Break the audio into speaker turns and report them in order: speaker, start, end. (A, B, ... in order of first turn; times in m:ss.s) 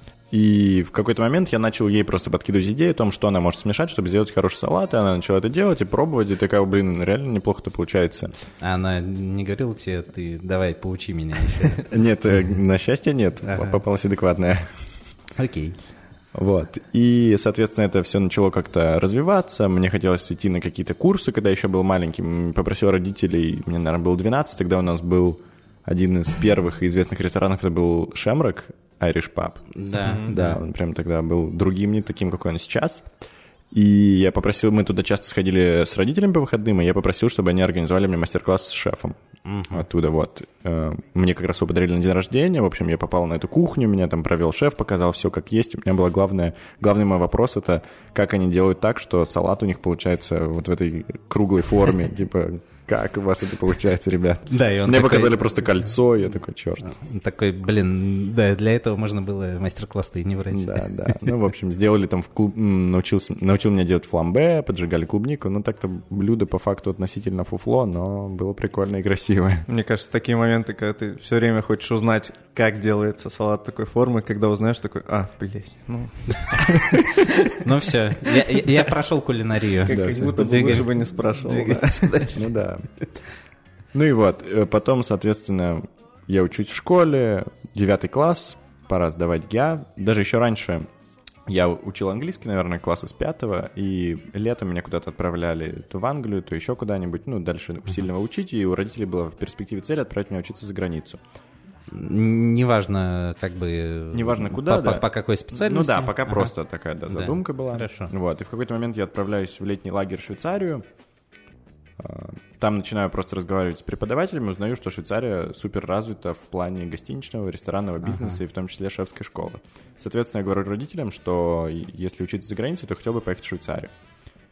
0:00.3-0:08.3 A
0:08.6-0:11.8 B
0:11.8-0:15.0 A
0:13.4-0:13.8 B
0:15.4-0:15.8 B
0:16.3-0:33.1 A
0:29.7-0:30.6 B
0:30.0-0:30.3 C
0:33.7-0:57.0 A
0:39.5-0:39.8 B
0:54.5-0:55.4 B
0:56.8-1:01.3 B
1:00.5-1:09.7 A
1:09.7-1:17.6 C
1:17.4-1:22.5 B
1:19.9-1:22.3 C
1:19.9-1:20.9 A
1:22.4-1:23.1 A
1:23.9-1:30.9 A
1:31.5-1:41.2 A
1:41.9-1:46.5 B
1:44.1-1:50.8 A
1:47.1-1:48.1 B
1:52.0-2:03.9 A
1:58.0-1:58.4 B